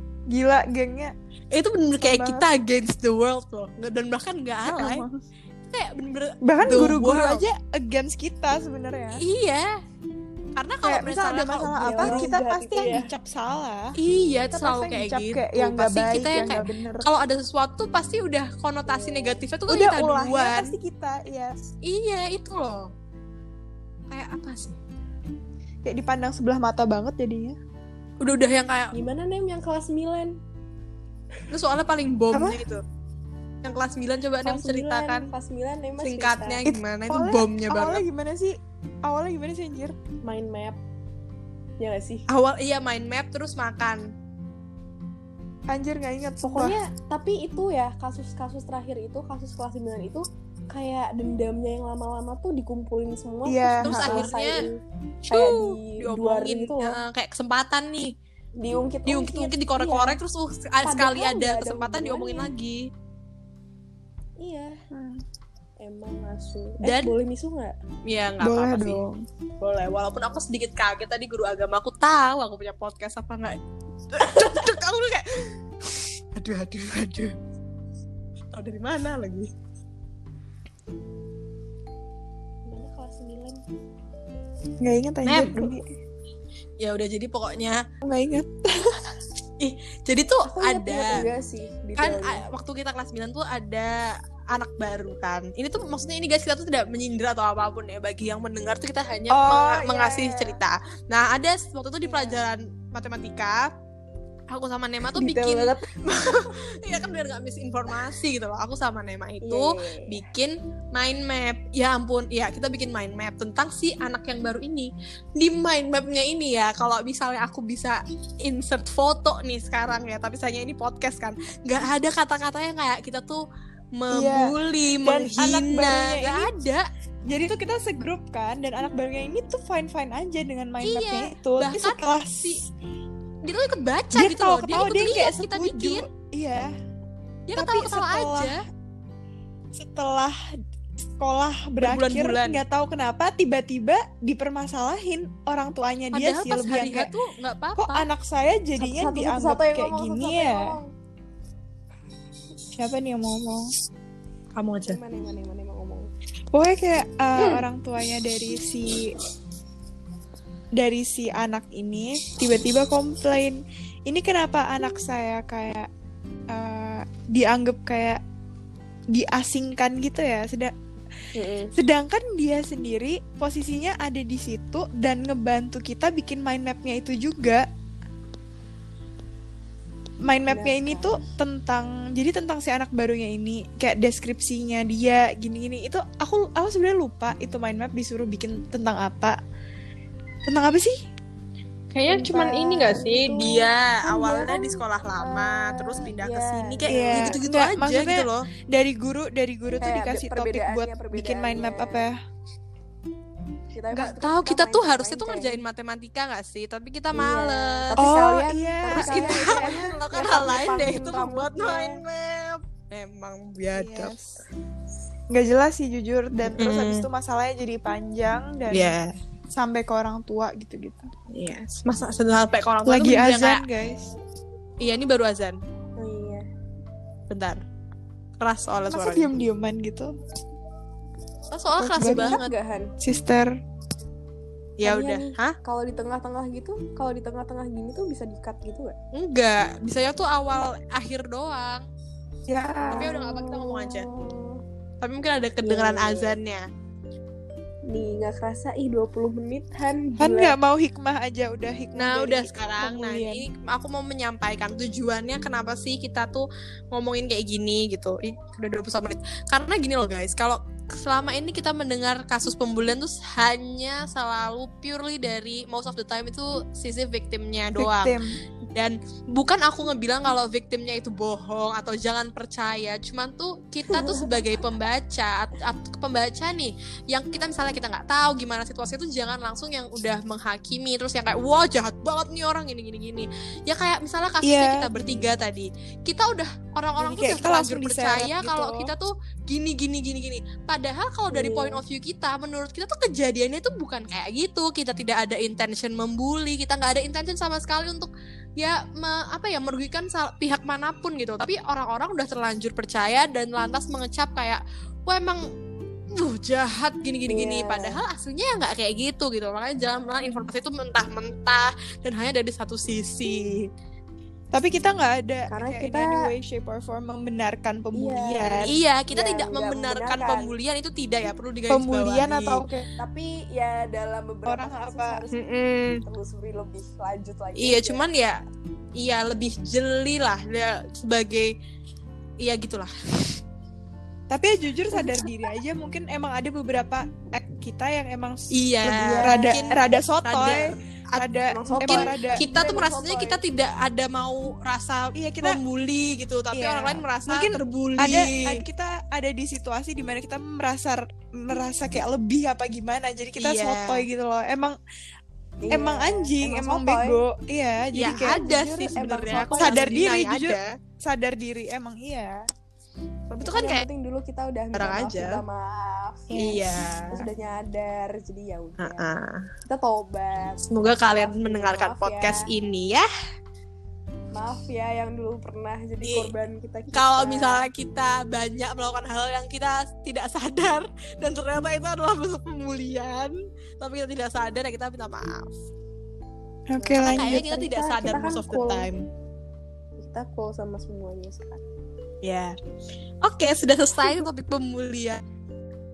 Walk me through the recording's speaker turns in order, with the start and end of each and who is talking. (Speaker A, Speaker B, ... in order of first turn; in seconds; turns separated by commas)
Speaker A: 0.3-1.1, Speaker B: 1.5-5.0, Speaker A: 2.0-2.5, Speaker A: 4.7-5.1, Speaker B: 5.6-7.5, Speaker A: 6.4-9.2, Speaker B: 9.2-9.7, Speaker B: 10.6-12.3, Speaker A: 10.8-13.9, Speaker C: 11.8-13.1, Speaker B: 14.0-20.7, Speaker A: 14.5-17.1, Speaker C: 18.9-19.4, Speaker A: 19.7-21.6, Speaker B: 21.9-22.9, Speaker B: 24.1-24.8, Speaker A: 25.8-27.6, Speaker B: 28.2-28.9, Speaker C: 28.9-30.4, Speaker B: 31.5-32.8, Speaker A: 32.3-32.6, Speaker B: 33.6-35.3, Speaker C: 34.4-36.6, Speaker B: 36.0-38.0, Speaker A: 36.7-40.0, Speaker C: 40.2-40.8, Speaker C: 41.8-42.2, Speaker B: 42.3-44.1, Speaker A: 45.7-46.8, Speaker C: 46.4-54.8, Speaker A: 53.5-54.3, Speaker B: 53.9-54.5, Speaker C: 55.3-57.0, Speaker B: 55.3-58.1, Speaker C: 58.6-60.2, Speaker B: 59.1-62.9, Speaker C: 60.8-62.5, Speaker C: 64.4-64.8, Speaker A: 64.9-65.2, Speaker C: 65.8-67.8, Speaker B: 66.8-67.1, Speaker B: 68.1-69.0, Speaker A: 68.4-69.2, Speaker B: 69.6-73.6, Speaker B: 74.1-77.3, Speaker B: 78.5-79.5, Speaker C: 82.7-83.6, Speaker A: 84.8-85.8, Speaker B: 85.2-85.7, Speaker B: 86.8-87.8, Speaker A: 88.0-89.1, Speaker B: 89.6-91.2, Speaker C: 90.5-92.5, Speaker B: 92.0-103.7, Speaker A: 99.3-100.6, Speaker C: 102.0-102.4, Speaker B: 104.5-123.4, Speaker C: 105.2-105.9, Speaker C: 109.4-110.3, Speaker B: 124.0-126.8, Speaker A: 124.1-126.5, Speaker A: 127.3-132.6, Speaker B: 130.8-132.6, Speaker B: 133.4-136.1, Speaker A: 134.1-136.7, Speaker B: 137.5-138.6, Speaker A: 137.6-138.5, Speaker A: 139.7-140.4, Speaker A: 141.0-147.1, Speaker B: 141.8-142.6, Speaker B: 146.1-148.1, Speaker A: 147.8-150.8, Speaker C: 148.8-150.9, Speaker A: 152.8-153.7, Speaker B: 154.6-155.0, Speaker C: 154.8-156.1, Speaker A: 156.5-159.2, Speaker A: 160.8-165.9, Speaker A: 166.5-168.2, Speaker A: 169.1-170.7, Speaker C: 171.3-171.8, Speaker A: 171.8-177.7, Speaker A: 180.2-189.4, Speaker C: 180.5-181.2, Speaker A: 190.5-191.0, Speaker B: 191.9-198.5, Speaker A: 192.1-192.9, Speaker C: 192.8-197.4, Speaker A: 196.9-202.2, Speaker C: 199.8-202.1, Speaker C: 203.8-205.6, Speaker B: 203.9-208.0, Speaker C: 207.1-212.0, Speaker A: 208.0-209.9, Speaker B: 208.9-214.1, Speaker A: 213.7-214.4, Speaker A: 215.3-219.0, Speaker B: 216.6-217.1, Speaker B: 218.7-219.1, Speaker A: 219.5-221.1, Speaker B: 221.3-223.6, Speaker A: 222.9-224.1, Speaker B: 224.8-225.6, Speaker C: 226.0-226.5, Speaker B: 227.3-227.6, Speaker B: 228.4-229.3, Speaker A: 228.9-230.1, Speaker B: 231.5-232.5, Speaker A: 231.8-232.4, Speaker C: 231.9-232.9, Speaker A: 233.0-233.5, Speaker B: 234.8-235.6, Speaker C: 234.8-239.0, Speaker B: 239.1-241.9, Speaker A: 242.5-243.1, Speaker C: 242.9-244.6, Speaker B: 242.9-244.1, Speaker B: 245.0-246.6, Speaker C: 245.6-246.4, Speaker C: 247.9-250.6, Speaker A: 250.2-253.5, Speaker B: 251.9-268.2, Speaker A: 267.8-268.4, Speaker B: 268.8-305.4, Speaker C: 273.9-274.3, Speaker A: 284.4-285.3, Speaker A: 287.0-288.9, Speaker C: 291.3-291.8, Speaker B: 306.1-313.7, Speaker C: 307.3-308.0, Speaker A: 314.5-318.7, Speaker C: 315.5-316.3, Speaker C: 317.9-320.6, Speaker B: 318.7-322.6, Speaker A: 321.7-322.9, Speaker C: 323.0-325.5, Speaker A: 324.5-325.2, Speaker B: 325.3-326.0, Speaker C: 326.0-328.0, Speaker B: 327.6-328.4, Speaker B: 329.0-331.5, Speaker B: 332.4-332.9, Speaker A: 334.3-342.4, Speaker C: 334.9-335.2, Speaker B: 338.5-341.3, Speaker C: 338.9-340.0, Speaker C: 341.5-343.4, Speaker B: 341.8-348.6, Speaker A: 345.1-345.6, Speaker A: 346.5-354.8, Speaker B: 353.4-354.1, Speaker C: 355.6-357.2, Speaker A: 355.7-362.4, Speaker B: 358.0-360.7, Speaker C: 358.0-360.1, Speaker B: 363.3-363.9, Speaker C: 363.3-369.1, Speaker B: 364.8-365.4, Speaker A: 366.3-366.6, Speaker B: 366.4-367.2, Speaker B: 368.8-369.5, Speaker C: 369.7-372.5, Speaker B: 370.7-373.1, Speaker C: 374.3-377.7, Speaker B: 376.0-376.3, Speaker B: 376.9-385.6, Speaker A: 386.7-387.5, Speaker C: 386.8-388.9, Speaker B: 387.0-389.0, Speaker C: 390.0-391.6, Speaker B: 392.2-392.6, Speaker B: 393.2-395.2